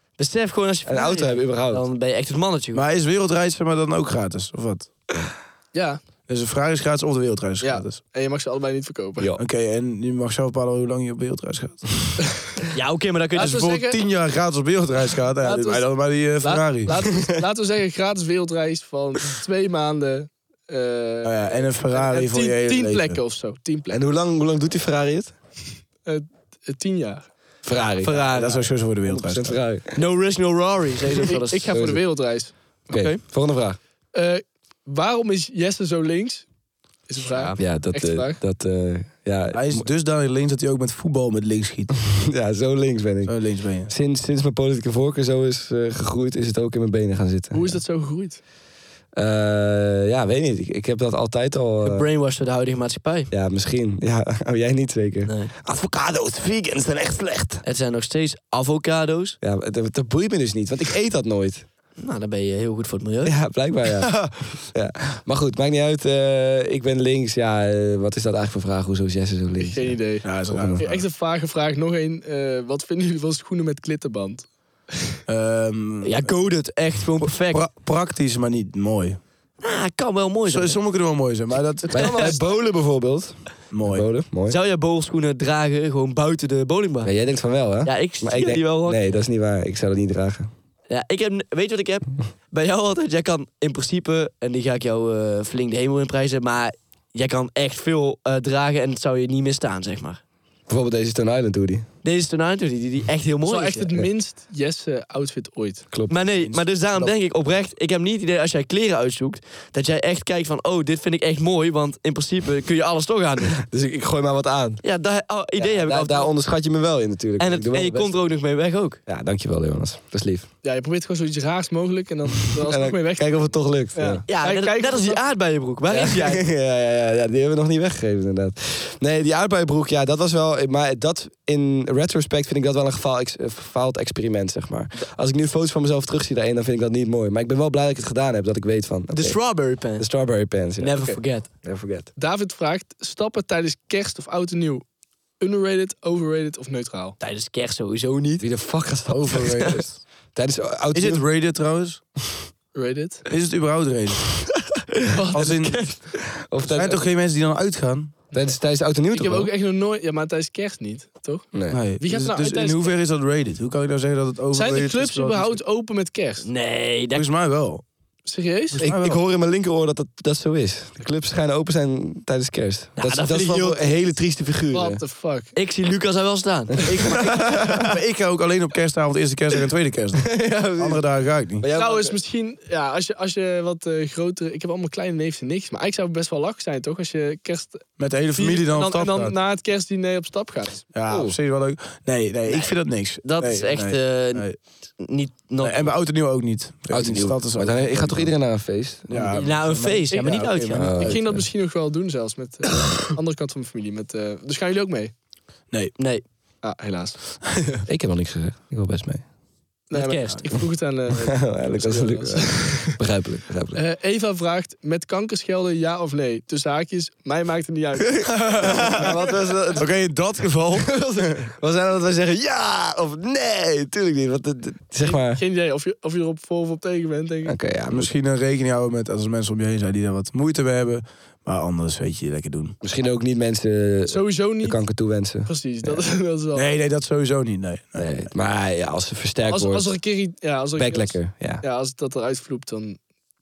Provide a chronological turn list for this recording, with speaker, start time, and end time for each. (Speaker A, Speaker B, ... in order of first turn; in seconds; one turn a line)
Speaker A: 0.2-2.9
Speaker B: 0.9-1.8
Speaker C: 2.7-4.9
Speaker D: 5.7-6.0
Speaker C: 6.3-8.0
Speaker D: 7.6-9.3
Speaker C: 9.4-12.3
Speaker A: 12.7-13.6
Speaker D: 13.4-14.0
Speaker C: 13.4-17.0
Speaker D: 15.4-24.0
Speaker C: 21.2-23.2
Speaker B: 23.9-25.3
Speaker D: 26.1-27.3
Speaker B: 27.6-28.2
Speaker A: 28.0-28.7
Speaker C: 28.3-29.6
Speaker B: 29.0-30.0
Speaker A: 29.9-31.8
Speaker D: 31.3-32.5
Speaker B: 31.7-32.0
Speaker B: 32.9-33.8
Speaker A: 32.9-33.2
Speaker D: 34.1-36.5
Speaker D: 37.1-38.4
Speaker B: 37.5-39.9
Speaker C: 39.5-42.0
Speaker B: 42.1-47.8
Speaker C: 43.3-43.9
Speaker D: 47.5-48.4
Speaker B: 49.2-52.1
Speaker A: 51.8-53.3
Speaker B: 53.3-57.6
Speaker A: 55.3-55.5
Speaker A: 57.6-59.4
Speaker B: 59.4-61.7
Speaker A: 62.0-63.4
Speaker B: 63.2-70.0
Speaker C: 64.0-64.5
Speaker D: 69.7-75.1
Speaker C: 70.2-71.0
Speaker B: 70.5-70.8
Speaker C: 75.3-76.3
Speaker A: 76.0-77.6
Speaker C: 77.2-79.2
Speaker A: 79.6-80.8
Speaker C: 80.5-82.4
Speaker A: 81.9-82.4
Speaker B: 81.9-84.6
Speaker C: 83.7-84.1
Speaker A: 84.5-87.1
Speaker B: 87.0-90.5
Speaker A: 87.8-89.0
Speaker A: 90.9-100.2
Speaker B: 100.7-101.9
Speaker A: 102.0-103.9
Speaker D: 103.5-105.9
Speaker B: 105.9-106.2
Speaker A: 106.1-113.6
Speaker C: 106.5-107.1
Speaker B: 113.6-114.8
Speaker A: 114.8-116.3
Speaker B: 115.6-118.2
Speaker A: 117.4-119.0
Speaker B: 119.1-120.5
Speaker D: 120.6-123.4
Speaker B: 122.5-124.2
Speaker D: 123.9-125.2
Speaker A: 124.3-126.5
Speaker B: 125.9-139.4
Speaker A: 139.1-140.1
Speaker B: 139.9-140.9
Speaker A: 140.8-141.5
Speaker B: 141.5-142.1
Speaker D: 142.2-144.8
Speaker D: 145.4-147.2
Speaker A: 147.2-148.5
Speaker B: 148.4-151.2
Speaker C: 149.1-150.0
Speaker C: 150.9-152.1
Speaker D: 152.7-153.3
Speaker C: 153.3-154.5
Speaker D: 155.1-155.5
Speaker A: 155.3-156.0
Speaker C: 155.3-156.0
Speaker B: 156.3-157.1
Speaker C: 156.7-158.2
Speaker B: 158.3-159.5
Speaker D: 159.1-163.0
Speaker B: 161.5-161.8
Speaker C: 161.7-165.6
Speaker D: 164.5-166.5
Speaker A: 166.4-167.3
Speaker C: 167.1-167.8
Speaker D: 168.3-168.8
Speaker C: 168.7-169.2
Speaker B: 168.8-175.0
Speaker A: 173.0-173.8
Speaker D: 174.7-175.5
Speaker A: 175.5-177.7
Speaker C: 177.4-181.7
Speaker B: 177.5-177.9
Speaker B: 180.2-181.0
Speaker B: 181.6-182.2
Speaker D: 181.7-190.9
Speaker C: 188.0-189.3
Speaker C: 190.9-194.6
Speaker B: 191.1-191.4
Speaker A: 192.5-195.9
Speaker C: 195.6-198.4
Speaker B: 196.9-199.1
Speaker C: 199.1-201.4
Speaker A: 199.1-201.1
Speaker D: 200.1-205.1
Speaker B: 200.7-201.2
Speaker A: 206.0-206.2
Speaker D: 206.6-207.2
Speaker B: 207.9-209.2
Speaker D: 209.9-213.0
Speaker A: 209.9-210.5
Speaker B: 211.2-213.8
Speaker D: 213.8-219.4
Speaker C: 218.2-219.1
Speaker B: 218.6-219.9
Speaker C: 219.8-221.4
Speaker B: 220.7-225.4
Speaker D: 225.0-227.6
Speaker B: 227.4-228.1
Speaker C: 227.9-232.8
Speaker B: 232.8-236.0
Speaker D: 234.1-234.9
Speaker D: 235.4-236.7
Speaker C: 236.6-238.3
Speaker B: 238.0-239.9
Speaker D: 239.5-243.0
Speaker B: 240.8-241.6